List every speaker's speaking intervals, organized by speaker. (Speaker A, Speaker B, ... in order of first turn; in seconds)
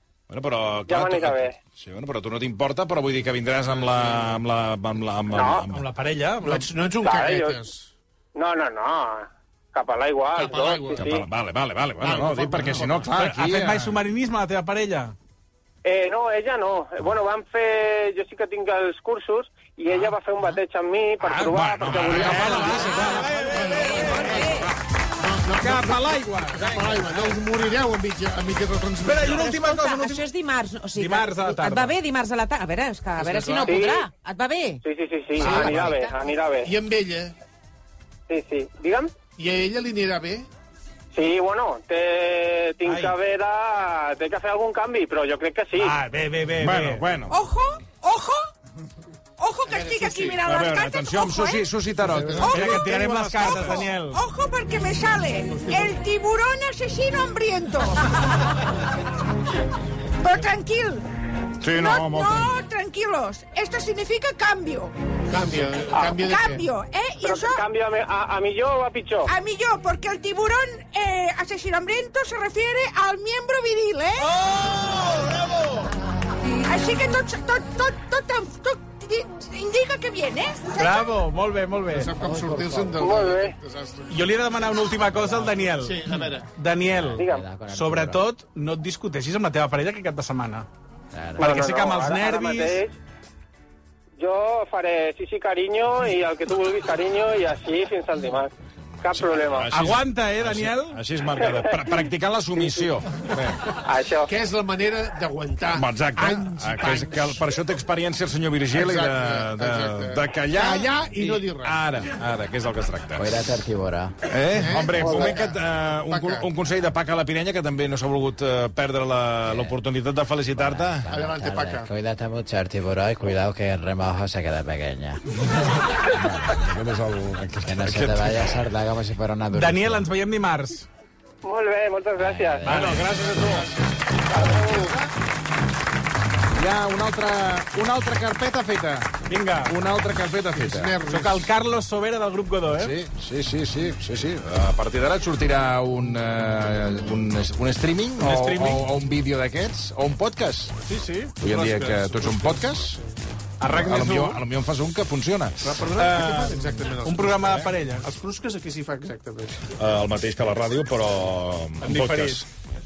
Speaker A: 0.3-5.8, 11.0-13.9, 21.4-23.2, 46.6-47.4, 50.4-52.9, 61.6-62.5, 99.0-103.7, 105.8-113.4, 114.2-121.1, 126.2-128.4, 132.6-133.7, 136.5-139.1, 139.7-140.9, 142.7-150.7, 151.4-153.0, 153.7-155.6, 159.8-162.5
Speaker B: 0.9-1.6, 5.3-5.7, 7.0-7.6, 8.3-11.2, 15.8-23.0, 33.6-34.1, 34.8-36.7, 38.3-39.2, 41.1-46.0, 65.9-66.2, 67.2-69.3, 83.0-83.6, 87.2-87.5, 91.4-93.0, 94.2-99.7, 101.5-101.8, 102.6-102.9, 103.8-104.3, 131.4-132.7
Speaker C: 5.7-6.7, 13.1-15.2, 21.2-24.5, 25.6-27.4, 29.0-30.3, 30.9-32.0, 35.4-36.0, 42.9-43.2, 45.8-47.0, 52.5-54.2, 80.8-82.1, 84.1-86.0, 86.5-90.7, 91.4-92.8, 99.7-101.0, 129.5-130.9, 132.7-133.2, 139.3-139.8, 141.1-142.9, 148.2-148.9, 150.8-151.4, 153.6-154.4, 156.0-158.1, 161.8-162.4
Speaker D: 6.4-7.9, 10.3-11.1, 12.0-13.1, 23.3-24.6, 25.2-29.6, 33.2-33.8, 35.4-36.0, 36.6-37.3, 39.4-40.5, 49.7-50.3, 52.1-53.9, 55.5-56.0, 65.3-66.7, 81.9-84.2, 85.2-86.5, 104.2-107.4, 108.7-111.8, 114.6-116.5, 121.1-121.9, 134.4-134.9, 140.6-141.5, 151.4-153.1, 155.6-159.7
Speaker E: 22.8-24.7, 29.3-34.8
Speaker F: 47.3-48.5, 49.4-51.7, 52.4-58.1, 60.2-61.0, 61.7-64.9, 66.2-67.6, 69.3-74.3, 76.7-81.1
Speaker G: 82.2-83.0, 86.9-88.2, 91.1-91.6, 113.2-114.2, 119.5-119.8, 120.6-125.2, 127.6-130.1, 132.2-133.0